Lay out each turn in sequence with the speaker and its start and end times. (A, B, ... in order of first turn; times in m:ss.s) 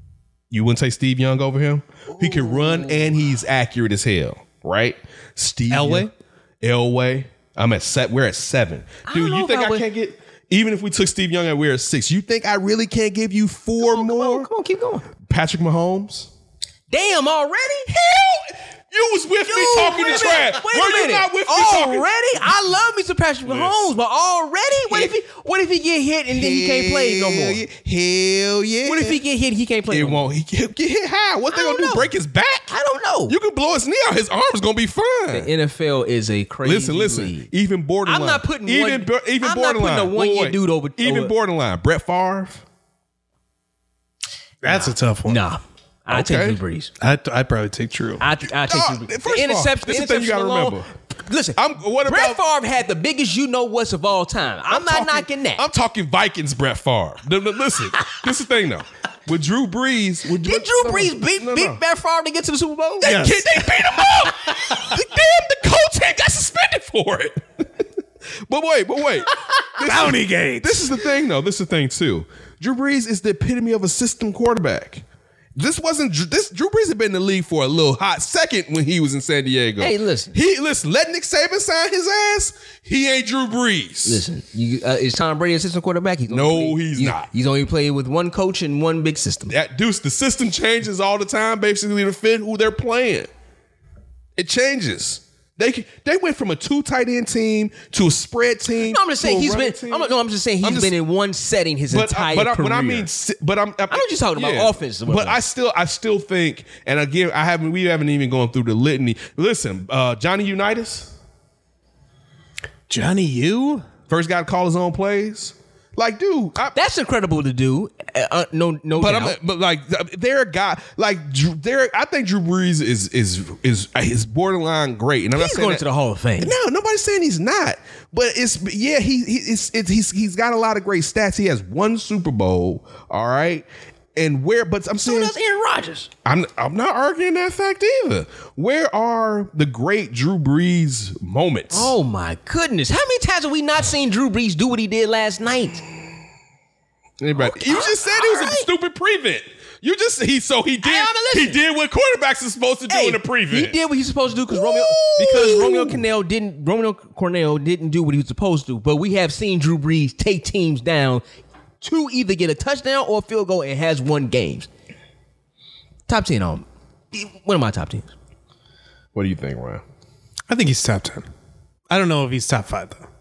0:00.5-0:06.1 A
0:02.1-0:03.1 B
0:05.7-0:06.1 C
0:06.6-0:14.5 A
0:09.0-0:09.8 B
0:13.8-0:15.1 B
0:15.2-0:16.3 A
0:16.9-0:17.9 B
0:17.9-0:22.5 A
0:19.4-0:27.6 B
0:23.4-0:23.8 A
0:24.9-0:25.1 A
0:26.3-0:29.2 A
0:28.8-0:30.3 B
0:29.9-0:32.7 A
0:31.5-0:32.1 B
0:32.7-0:33.3 B
0:33.3-0:35.5 A
0:35.3-0:37.5 B
0:36.6-0:42.6 A
0:38.0-0:41.3 B
0:44.6-0:45.4 C
0:44.6-0:46.9 B
0:46.1-0:46.6 A
0:47.0-0:48.2 C
0:48.2-0:55.6 B
0:48.5-0:50.9 A
0:51.6-0:52.4 A
0:54.7-1:01.8 A
1:00.4-1:03.3 B
1:03.0-1:07.8 A
1:03.0-1:03.5 C
1:08.4-1:15.0 A
1:09.6-1:11.0 C
1:15.6-1:24.2 A
1:19.8-1:20.4 B
1:24.0-1:29.5 B
1:26.3-1:27.3 A
1:29.5-1:33.3 A
1:34.4-1:40.9 A
1:38.8-1:43.1 B
1:41.9-1:51.1 A
1:43.9-1:45.4 B
1:52.9-1:53.8 C
1:54.1-1:56.8 A
1:56.7-1:59.4 B
1:59.0-2:05.8 A
2:05.3-2:06.5 B
2:06.4-2:15.3 A
2:15.0-2:16.1 B
2:16.2-2:21.9 A
2:21.7-2:25.8 B
2:27.2-2:33.8 A
2:27.4-2:28.7 B
2:30.8-2:31.6 B
2:32.9-2:41.2 B
2:34.5-2:36.0 A
2:41.8-2:44.7 B
2:46.1-2:48.1 B
2:49.1-2:49.8 A
2:50.5-2:51.2 C
2:51.9-2:53.0 C